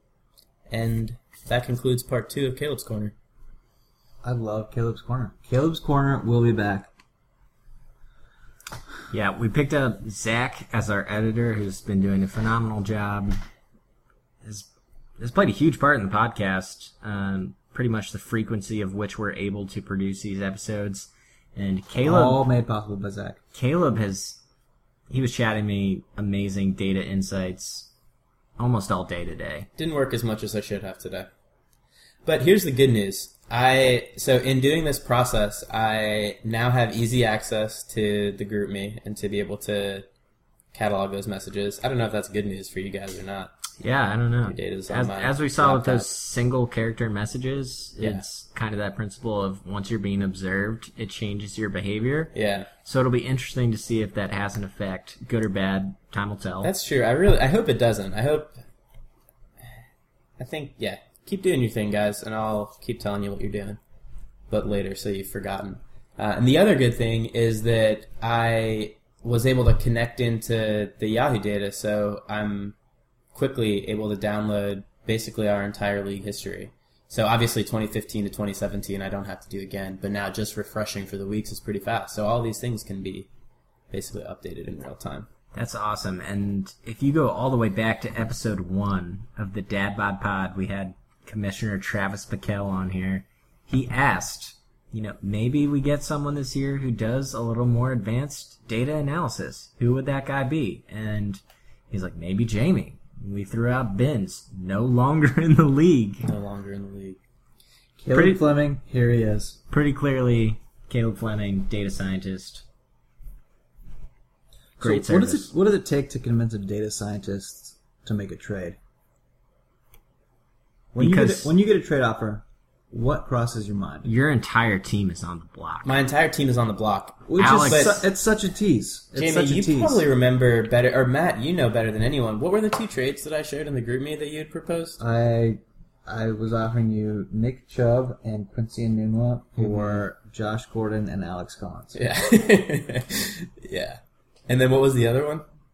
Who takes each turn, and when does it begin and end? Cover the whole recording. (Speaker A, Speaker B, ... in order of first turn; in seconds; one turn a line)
Speaker A: 0.7-3.1
Speaker B: 4.2-6.9
Speaker C: 9.1-13.4
Speaker C: 15.2-22.4
Speaker B: 22.0-23.4
Speaker C: 23.5-24.4
Speaker C: 25.1-27.9
Speaker C: 28.6-29.7
Speaker A: 29.8-31.3
Speaker A: 32.2-40.0
Speaker A: 40.7-43.5
Speaker C: 43.8-52.3
Speaker A: 44.4-46.1
Speaker A: 48.0-48.2
Speaker A: 52.3-52.7
Speaker C: 52.8-56.7
Speaker A: 56.6-58.5
Speaker A: 60.4-63.8
Speaker A: 64.5-72.7
Speaker A: 73.3-83.3
Speaker A: 83.9-85.3
Speaker C: 85.5-106.3
Speaker A: 106.2-107.2
Speaker B: 108.0-109.6
Speaker C: 108.1-108.4
Speaker C: 109.7-112.6
Speaker B: 114.8-118.8
Speaker C: 114.8-115.5
Speaker B: 120.9-124.1
Speaker C: 121.0-121.5
Speaker C: 124.0-125.9
Speaker A: 125.8-128.0
Speaker B: 127.3-130.0
Speaker C: 127.4-128.0
Speaker A: 129.1-135.0
Speaker B: 135.0-142.0
Speaker A: 139.6-140.0
Speaker A: 141.9-145.4